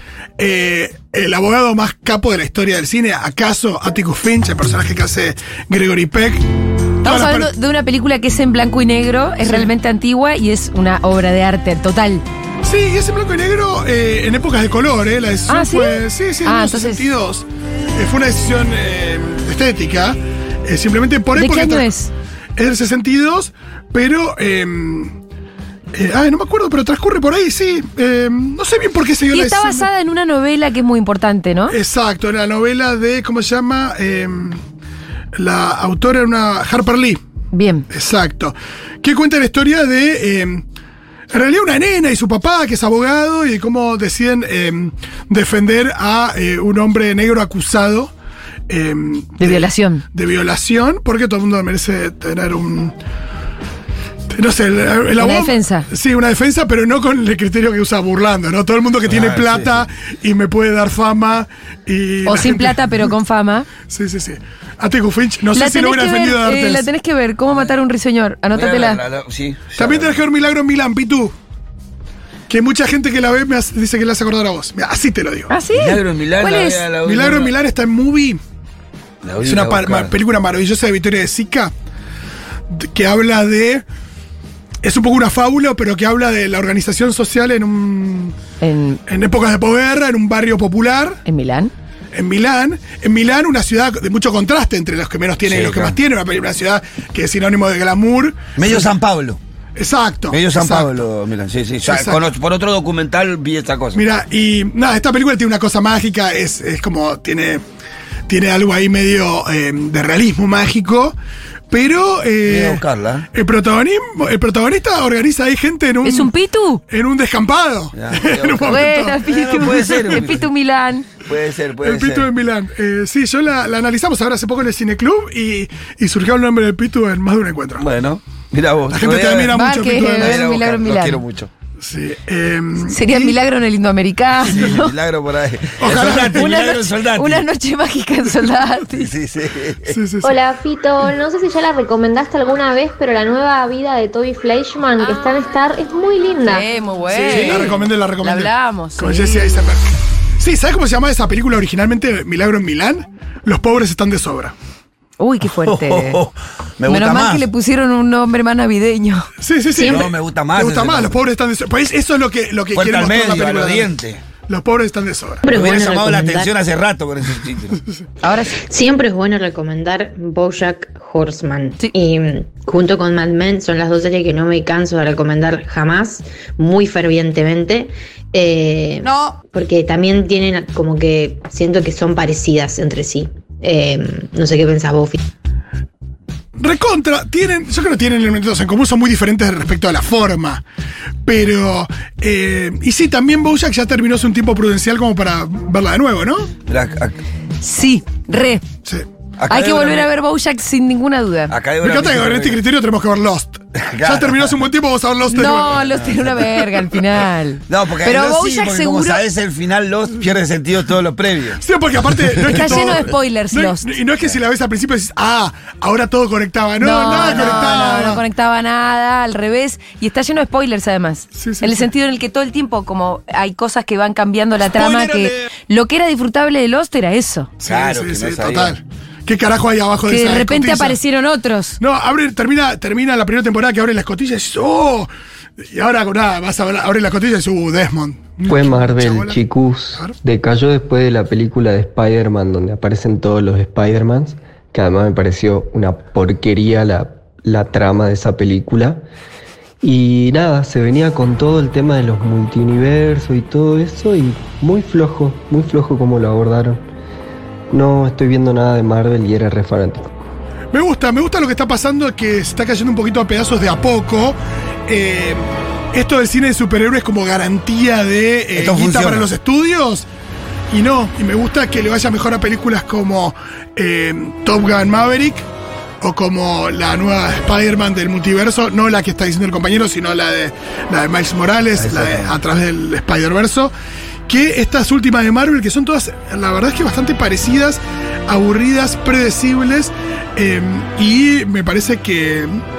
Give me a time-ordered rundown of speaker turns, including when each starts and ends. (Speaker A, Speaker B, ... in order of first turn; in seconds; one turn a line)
Speaker A: 0.4-6.4
Speaker A: 7.0-7.5
Speaker B: 7.0-12.2
Speaker A: 12.6-21.9
Speaker B: 15.5-17.0
Speaker B: 21.4-22.1
Speaker A: 22.6-25.2
Speaker A: 25.9-29.9
Speaker B: 29.3-31.8
Speaker A: 31.7-34.6
Speaker A: 35.4-37.2
Speaker B: 37.5-37.9
Speaker A: 37.9-40.6
Speaker A: 41.3-48.1
Speaker A: 48.7-52.9
Speaker B: 49.4-50.0
Speaker A: 54.3-63.1
Speaker B: 55.2-55.9
Speaker C: 59.0-59.9
Speaker B: 62.2-63.7
Speaker A: 63.9-66.9
Speaker B: 65.5-69.0
Speaker C: 68.5-70.2
Speaker A: 69.8-71.3
Speaker A: 72.5-75.5
Speaker B: 75.5-76.8
Speaker C: 75.8-77.5
Speaker A: 77.0-78.4
Speaker C: 79.2-80.1
Speaker A: 79.4-81.7
Speaker A: 82.7-83.8
Speaker A: 84.8-88.4
Speaker B: 88.6-89.0
Speaker A: 89.1-91.2
Speaker B: 91.2-91.7
Speaker A: 92.1-98.9
Speaker C: 95.4-96.0
Speaker C: 98.5-99.4
Speaker A: 99.8-100.9
Speaker C: 100.3-104.0
Speaker A: 101.9-102.2
Speaker A: 103.9-107.6
Speaker A: 108.3-111.2
Speaker A: 111.7-112.8
Speaker C: 112.4-113.3
Speaker A: 113.3-116.3
Speaker B: 116.0-116.8
Speaker A: 116.9-120.2
Speaker C: 117.9-120.5
Speaker B: 118.7-121.1
Speaker C: 121.2-122.3
Speaker A: 121.8-127.8
Speaker C: 127.8-131.5
Speaker A: 128.9-130.4
Speaker B: 129.5-131.2
Speaker A: 131.8-133.4
Speaker B: 132.9-134.9
Speaker C: 134.4-137.4
Speaker A: 135.8-136.5
Speaker B: 136.3-139.1
Speaker C: 139.0-139.9
Speaker A: 139.9-140.3
Speaker D: 140.2-146.6
Speaker B: 145.0-145.3
Speaker B: 146.4-149.6
Speaker A: 147.1-149.8
Speaker A: 150.4-154.5
Speaker B: 155.2-156.2
Speaker C: 155.5-157.4
Speaker B: 156.9-159.3
Speaker A: 159.4-163.9
Speaker E: 159.8-160.0
Speaker C: 159.8-161.2
Speaker C: 162.7-164.2
Speaker A: 164.5-165.4
Speaker E: 165.4-166.5
Speaker C: 165.5-167.8
Speaker B: 168.2-168.6
Speaker E: 168.6-185.2
Speaker A: 186.6-190.6
Speaker A: 191.2-196.5
Speaker C: 196.7-197.2
Speaker B: 197.6-198.6
Speaker C: 199.4-200.1
Speaker B: 199.5-201.5
Speaker C: 201.5-202.6
Speaker A: 201.8-205.8
Speaker C: 203.8-204.6
Speaker B: 205.3-209.2
Speaker C: 205.7-206.4
Speaker C: 207.7-211.6
Speaker A: 211.6-218.2
Speaker C: 212.3-212.8
Speaker B: 212.5-213.9
Speaker B: 216.8-227.5
Speaker A: 221.3-221.9
Speaker A: 224.7-225.5
Speaker A: 227.6-231.0
Speaker C: 227.6-228.8
Speaker B: 230.1-231.8
Speaker A: 231.8-235.1
Speaker A: 235.6-239.4
Speaker F: 238.4-249.0
Speaker F: 249.8-256.8
Speaker F: 257.7-260.1
Speaker A: 260.7-270.1
Speaker C: 268.6-269.3
Speaker A: 270.7-275.4
Speaker A: 276.0-283.7
Speaker C: 281.8-282.4
Speaker A: 284.3-292.6